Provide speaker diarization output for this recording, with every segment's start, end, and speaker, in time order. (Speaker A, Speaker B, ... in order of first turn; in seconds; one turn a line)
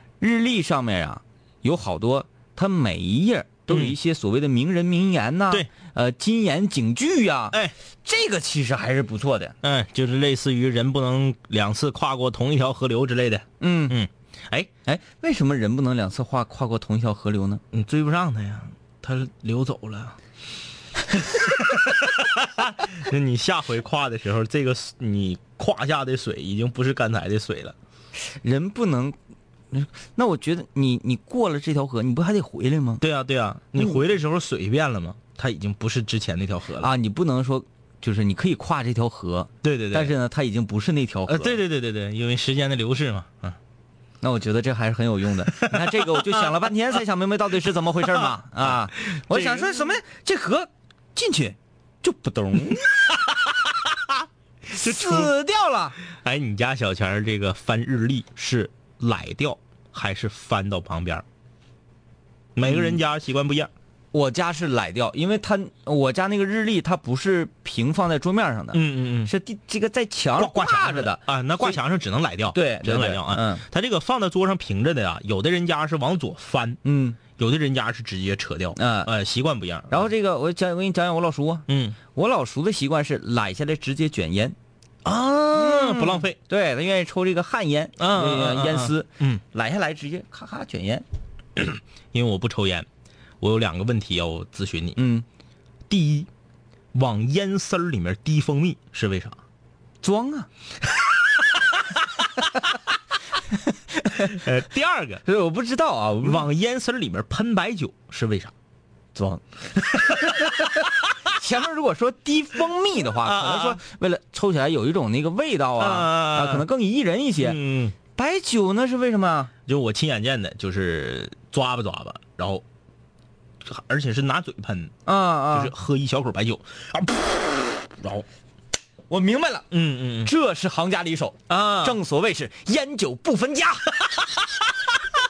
Speaker A: 0.2-9.6
Speaker B: 3.7-4.0
Speaker B: 9.6-14.7
Speaker A: 13.6-14.0
Speaker A: 14.8-17.6
Speaker B: 17.7-20.1
Speaker B: 21.4-27.7
Speaker A: 28.3-29.1
Speaker A: 29.7-33.0
Speaker B: 33.0-36.9
Speaker A: 36.8-41.6
Speaker B: 39.6-40.1
Speaker B: 41.3-43.6
Speaker A: 44.2-52.9
Speaker B: 45.6-46.5
Speaker B: 48.1-49.9
Speaker B: 53.1-55.3
Speaker A: 54.7-56.0
Speaker B: 56.1-61.2
Speaker B: 62.5-63.7
Speaker A: 62.6-63.0
Speaker A: 64.1-71.8
Speaker B: 68.7-69.3
Speaker B: 70.3-76.8
Speaker A: 72.5-73.6
Speaker A: 76.8-77.2
Speaker B: 77.3-80.0
Speaker A: 78.8-79.1
Speaker A: 79.9-84.5
Speaker B: 81.7-82.0
Speaker B: 85.0-86.4
Speaker A: 85.5-91.0
Speaker B: 88.0-89.4
Speaker B: 91.5-92.9
Speaker B: 93.4-95.0
Speaker A: 95.0-95.2
Speaker B: 95.9-96.3
Speaker B: 96.9-99.4
Speaker A: 100.0-100.5
Speaker A: 104.1-104.4
Speaker B: 104.2-105.2
Speaker A: 105.2-106.5
Speaker B: 106.2-108.5
Speaker A: 109.1-110.7
Speaker A: 111.3-117.6
Speaker B: 113.2-113.8
Speaker B: 115.8-116.7
Speaker B: 117.4-117.9
Speaker A: 118.1-119.5
Speaker B: 119.7-122.6
Speaker B: 123.6-124.9
Speaker A: 125.0-125.7
Speaker B: 125.5-128.2
Speaker A: 129.1-129.7
Speaker B: 129.7-130.3
Speaker A: 130.2-134.0
Speaker B: 131.5-132.0
Speaker B: 134.4-134.6